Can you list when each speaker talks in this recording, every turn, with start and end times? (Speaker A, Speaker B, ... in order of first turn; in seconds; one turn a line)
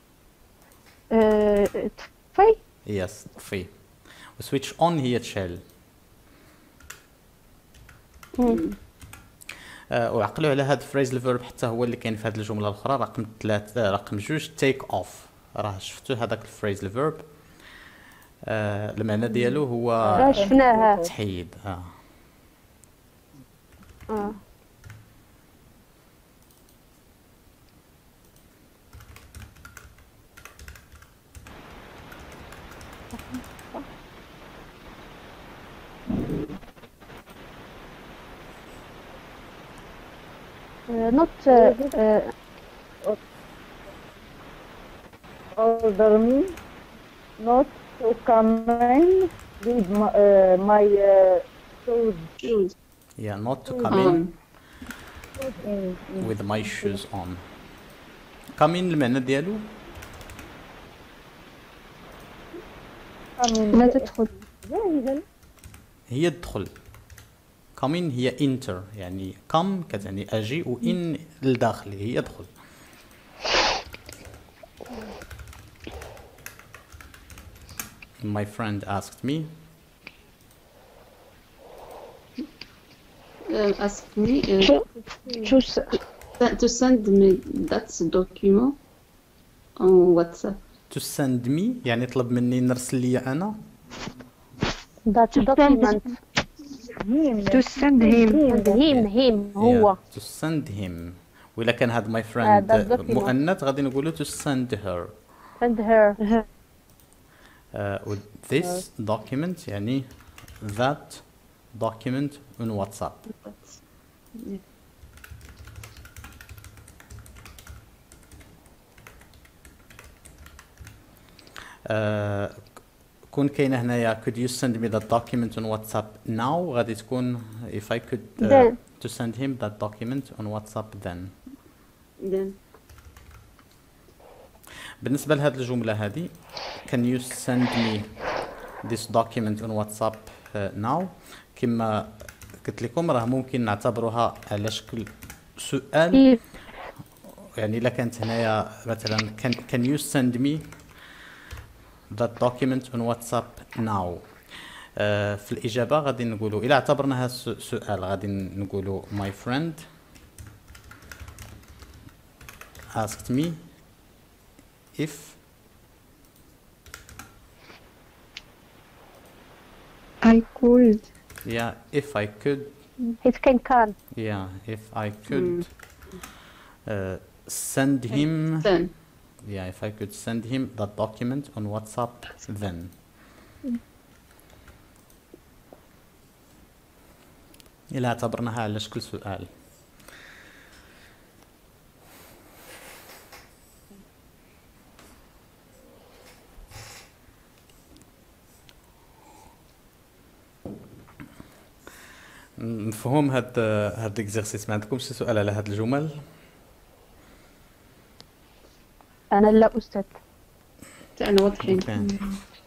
Speaker A: 1.1-2.6
Speaker B: 2.8-5.6
Speaker C: 8.4-8.8
Speaker B: 9.9-17.5
Speaker B: 18.4-21.9
Speaker D: 20.0-21.1
Speaker A: 20.2-21.0
Speaker A: 24.1-24.4
Speaker A: 40.9-42.3
Speaker D: 41.5-41.9
Speaker D: 45.5-46.5
Speaker D: 47.4-52.3
Speaker C: 52.4-52.7
Speaker B: 53.2-54.2
Speaker D: 53.7-54.1
Speaker C: 53.9-54.3
Speaker D: 55.4-57.0
Speaker B: 56.2-57.4
Speaker B: 58.6-59.7
Speaker D: 63.4-64.1
Speaker A: 63.7-64.3
Speaker D: 64.6-65.2
Speaker B: 66.1-66.7
Speaker B: 67.8-72.5
Speaker B: 78.2-79.5
Speaker C: 83.5-84.7
Speaker A: 84.6-86.0
Speaker D: 85.0-85.6
Speaker C: 86.4-88.8
Speaker C: 89.8-90.6
Speaker B: 90.9-93.6
Speaker A: 95.0-96.1
Speaker E: 95.3-96.2
Speaker D: 96.8-98.8
Speaker E: 97.5-98.4
Speaker A: 98.4-100.0
Speaker B: 98.9-105.1
Speaker A: 102.4-103.3
Speaker A: 105.6-106.2
Speaker B: 107.7-113.2
Speaker C: 113.3-113.8
Speaker B: 121.8-122.7
Speaker B: 123.3-131.3
Speaker A: 128.4-128.8
Speaker C: 132.2-132.6
Speaker B: 135.0-138.1
Speaker B: 138.8-146.3
Speaker A: 146.1-146.4
Speaker B: 147.4-150.6
Speaker B: 152.1-159.8
Speaker B: 162.9-163.6
Speaker B: 164.9-165.4
Speaker E: 170.2-171.0
Speaker B: 171.4-172.7
Speaker A: 173.2-173.9
Speaker B: 174.1-175.7
Speaker C: 175.3-175.7
Speaker B: 176.8-178.7
Speaker C: 178.1-178.9
Speaker B: 179.4-182.9
Speaker B: 187.9-189.5
Speaker B: 202.6-206.2
Speaker A: 209.3-210.1
Speaker C: 211.2-211.9
Speaker B: 211.6-212.3